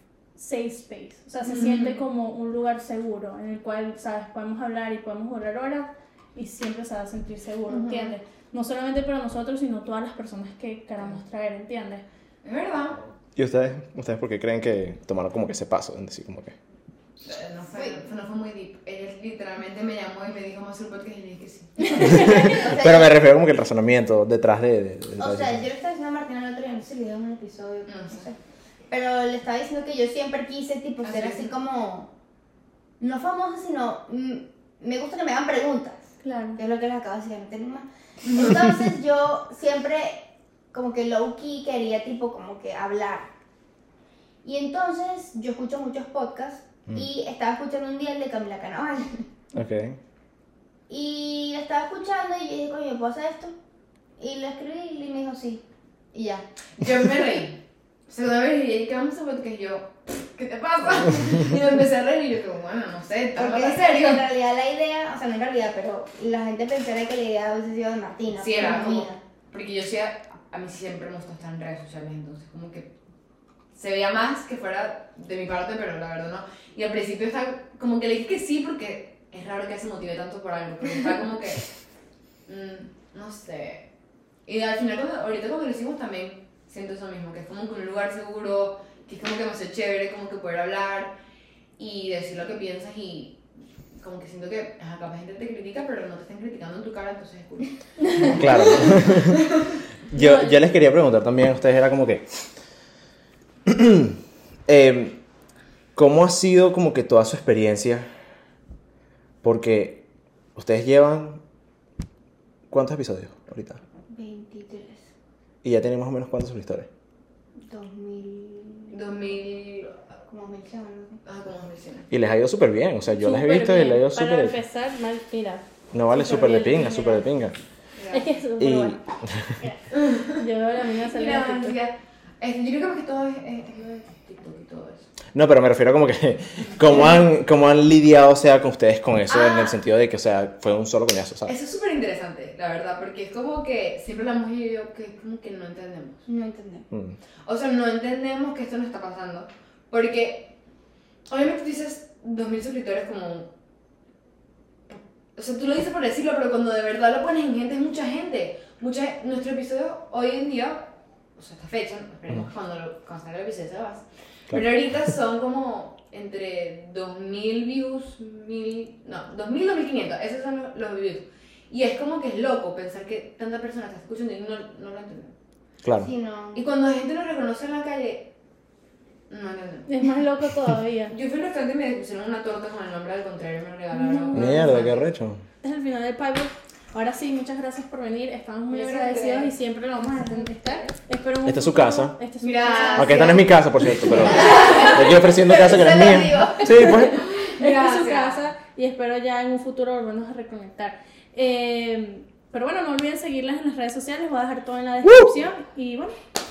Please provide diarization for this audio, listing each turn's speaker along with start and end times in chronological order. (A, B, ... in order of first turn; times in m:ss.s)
0:00.4-0:12.0 A
0:01.4-0:01.9 B
0:07.7-0:08.2 C
0:11.0-0:11.2 B
0:12.4-0:13.0 B
0:13.4-0:16.5 D
0:17.2-0:21.9 B
0:21.8-0:22.8 A
0:22.0-0:23.1 C
0:22.0-0:25.6 D
0:25.2-0:28.4 C
0:27.9-0:28.2 B
0:28.9-0:32.1 C
0:31.0-0:31.5 B
0:33.0-0:40.2 C
0:36.2-0:36.6 A
0:38.2-0:38.8 B
0:40.7-0:43.3 C
0:44.4-0:49.2 C
0:49.5-0:50.0 D
0:50.9-0:53.5 C
0:54.2-0:55.6 C
0:56.1-0:56.4 C
0:56.8-0:57.6 B
0:58.1-1:04.2 B
1:03.4-1:09.2 C
1:08.3-1:12.9 B
1:13.7-1:21.6 B
1:22.5-1:23.8 B
1:24.4-1:31.1 B
1:31.8-1:33.4 B
1:34.0-1:39.6 B
1:38.4-1:39.4 D
1:40.1-1:42.2 D
1:40.1-1:40.6 A
1:43.7-1:44.1 D
1:44.7-1:45.2 D
1:45.9-1:48.1 D
1:49.4-1:50.0 D
1:50.5-1:51.4 D
1:52.7-1:53.8 D
1:54.1-1:55.1 C
1:55.6-1:56.9 D
1:57.7-1:59.2 C
1:58.9-1:59.9 B
2:00.3-2:01.2 C
2:01.2-2:02.1 B
2:02.1-2:04.6 D
2:03.1-2:07.3 A
2:05.9-2:07.5 D
2:08.0-2:08.2 B
2:08.1-2:09.0 A
2:08.6-2:09.0 D
2:09.9-2:10.4 B
2:10.3-2:11.8 A
2:11.0-2:15.0 B
2:15.3-2:21.5 D
2:19.3-2:19.8 B
2:21.4-2:26.2 B
2:26.2-2:26.8 C
2:27.4-2:30.5 B
2:31.3-2:33.5 B
2:34.9-2:40.8 B
2:41.4-2:55.3 B
2:55.8-2:56.1 D
2:56.0-2:56.7 C
2:56.5-2:58.3 B
2:59.3-2:59.9 B
2:59.9-3:01.1 A
3:01.1-3:05.0 B
3:03.9-3:04.9 A
3:04.3-3:05.4 D
3:05.6-3:13.5 A
3:08.7-3:09.5 B
3:10.0-3:10.9 C
3:11.4-3:12.1 D
3:12.4-3:13.2 B
3:12.6-3:13.5 C
3:13.0-3:17.2 D
3:14.0-3:17.4 C
3:14.2-3:15.0 A
3:16.8-3:26.1 A
3:17.3-3:18.4 B
3:25.0-3:25.3 D